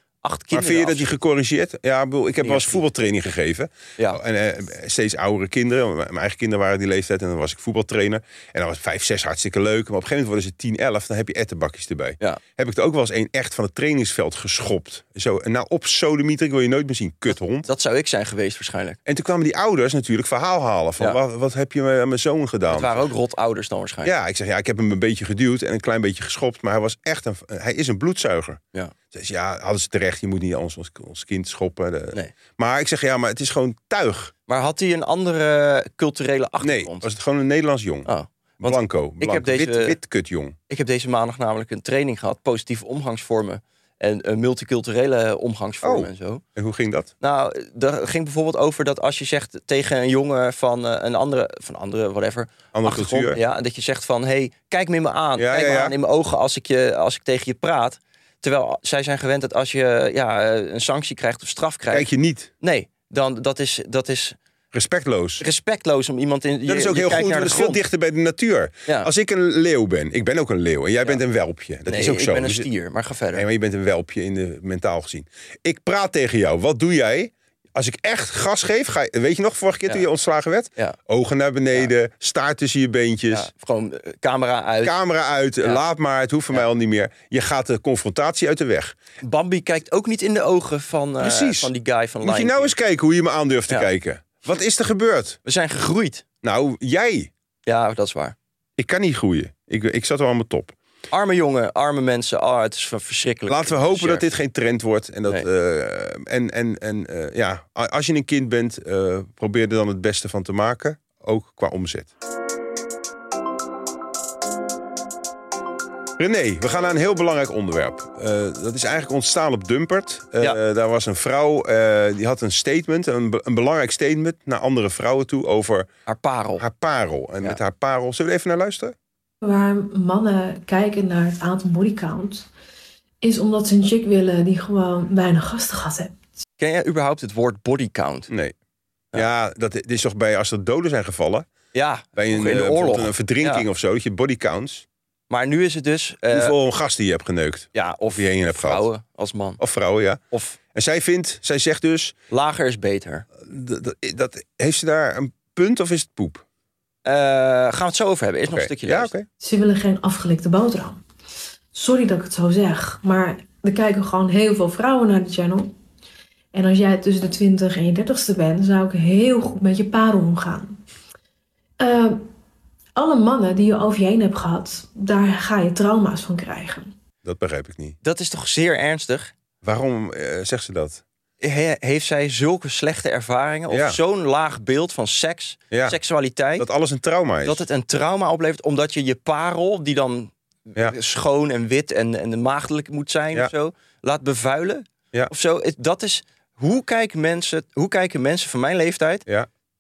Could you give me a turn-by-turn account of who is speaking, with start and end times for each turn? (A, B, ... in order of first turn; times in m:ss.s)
0:00.2-0:01.1 A
0:00.5-0:17.7 B
0:02.4-0:02.8 A
0:17.6-0:19.0 A
0:19.1-0:23.1 B
0:22.7-0:24.1 A
0:24.0-0:28.6 B
0:29.1-0:34.3 B
0:34.5-0:37.1 A
0:36.6-0:38.1 B
0:38.1-0:40.0 A
0:38.6-0:40.6 B
0:40.7-0:46.4 A
0:45.8-0:47.1 B
0:47.2-1:02.1 A
0:52.7-0:53.4 B
0:55.4-0:56.0 B
1:01.9-1:02.5 B
1:02.6-1:04.4 A
1:04.7-1:05.4 B
1:05.4-1:07.8 A
1:06.7-1:12.7 B
1:11.9-1:13.5 A
1:13.3-1:23.5 B
1:23.3-1:25.0 A
1:24.8-1:29.0 B
1:29.2-1:32.7 A
1:31.2-1:35.4 B
1:35.4-1:36.2 A
1:36.4-1:37.3 B
1:37.7-1:38.4 A
1:38.8-1:40.8 B
1:41.1-1:44.3 A
1:43.5-1:52.1 B
1:56.2-2:05.9 B
2:06.1-2:06.6 A
2:06.6-2:09.0 B
2:09.4-2:12.5 C
2:13.2-2:16.2 C
2:16.6-2:18.3 A
2:18.3-2:18.6 B
2:19.1-2:21.5 B
2:21.7-2:23.7 A
2:22.2-2:24.9 B
2:25.3-2:26.6 A
2:26.3-2:28.9 B
2:27.8-2:29.6 A
2:29.6-2:30.2 B
2:30.3-2:30.6 A
2:30.7-2:32.2 B
2:32.3-2:33.3 A
2:33.4-2:36.4 B
2:37.0-2:39.1 A
2:38.5-2:39.3 B
2:39.4-2:41.0 C
2:41.7-2:45.7 C
2:46.5-2:50.8 C
2:51.8-2:52.3 C
2:53.0-2:56.9 C
2:57.2-2:58.0 B
2:58.0-2:59.3 A
2:59.6-3:01.0 B
3:01.4-3:06.7 A
3:03.7-3:04.0 B
3:05.7-3:06.0 B
3:06.6-3:07.6 B
3:07.4-3:19.3 A